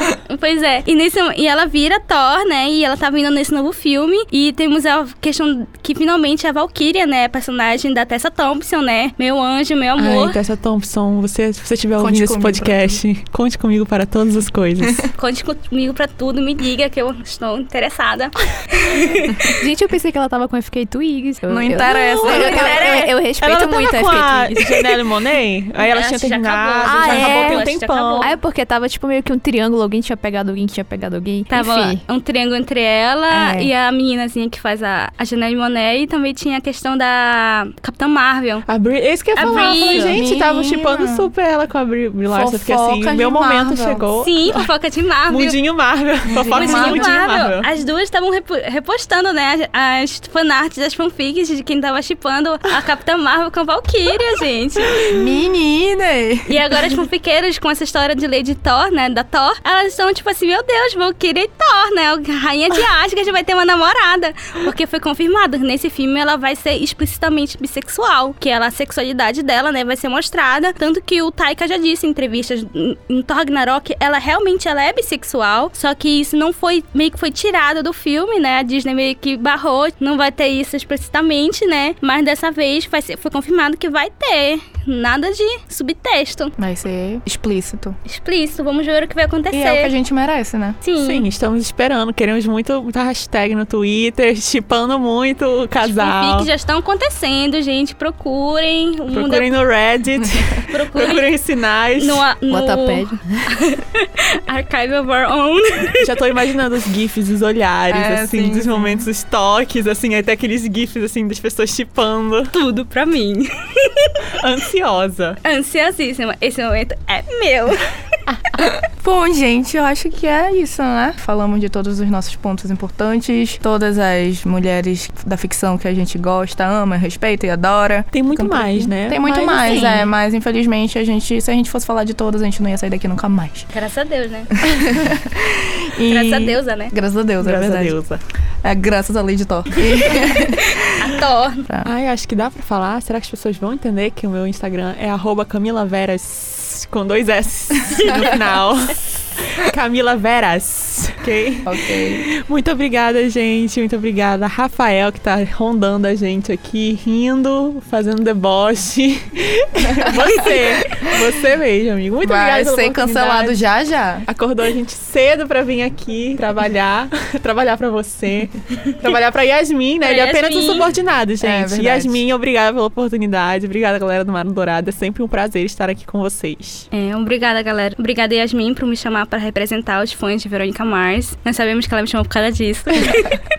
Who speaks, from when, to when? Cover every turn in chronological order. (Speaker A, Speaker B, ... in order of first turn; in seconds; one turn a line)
Speaker A: 0.3-10.4
Speaker B: 10.0-15.1
Speaker C: 12.0-13.0
Speaker A: 15.2-19.5
Speaker D: 19.6-24.8
Speaker C: 21.5-22.8
Speaker A: 21.9-23.1
Speaker B: 22.3-22.9
Speaker B: 23.4-28.3
Speaker A: 25.8-28.4
Speaker D: 26.8-32.0
Speaker A: 31.5-38.7
Speaker D: 33.3-33.7
Speaker B: 38.7-44.7
Speaker A: 39.4-40.2
Speaker D: 39.6-40.0
Speaker C: 39.9-41.3
Speaker C: 42.3-44.1
Speaker A: 44.2-45.6
Speaker B: 45.3-47.7
Speaker C: 46.3-47.1
Speaker A: 46.5-55.0
Speaker B: 55.0-55.2
Speaker C: 55.1-56.8
Speaker A: 56.5-86.5
Speaker C: 86.6-88.0
Speaker A: 88.1-89.9
Speaker C: 89.5-90.8
Speaker A: 90.8-91.3
Speaker B: 91.0-96.5
Speaker A: 95.8-99.5
Speaker B: 99.1-102.2
Speaker C: 100.2-100.6
Speaker A: 100.7-101.3
Speaker A: 102.0-106.2
Speaker D: 102.5-103.5
Speaker B: 106.0-112.5
Speaker C: 107.9-109.1
Speaker A: 112.5-114.3
Speaker B: 114.4-115.4
Speaker A: 115.4-117.9
Speaker C: 118.6-133.7
Speaker B: 128.1-130.1
Speaker A: 129.3-130.1
Speaker A: 133.7-134.5
Speaker C: 134.7-137.9
Speaker A: 136.1-136.9
Speaker B: 137.4-138.2
Speaker C: 138.6-140.8
Speaker A: 140.8-141.6
Speaker B: 141.8-163.6
Speaker C: 151.7-152.2
Speaker C: 162.2-164.3
Speaker B: 164.3-176.9
Speaker A: 170.0-170.9
Speaker C: 171.4-172.2
Speaker A: 176.9-183.4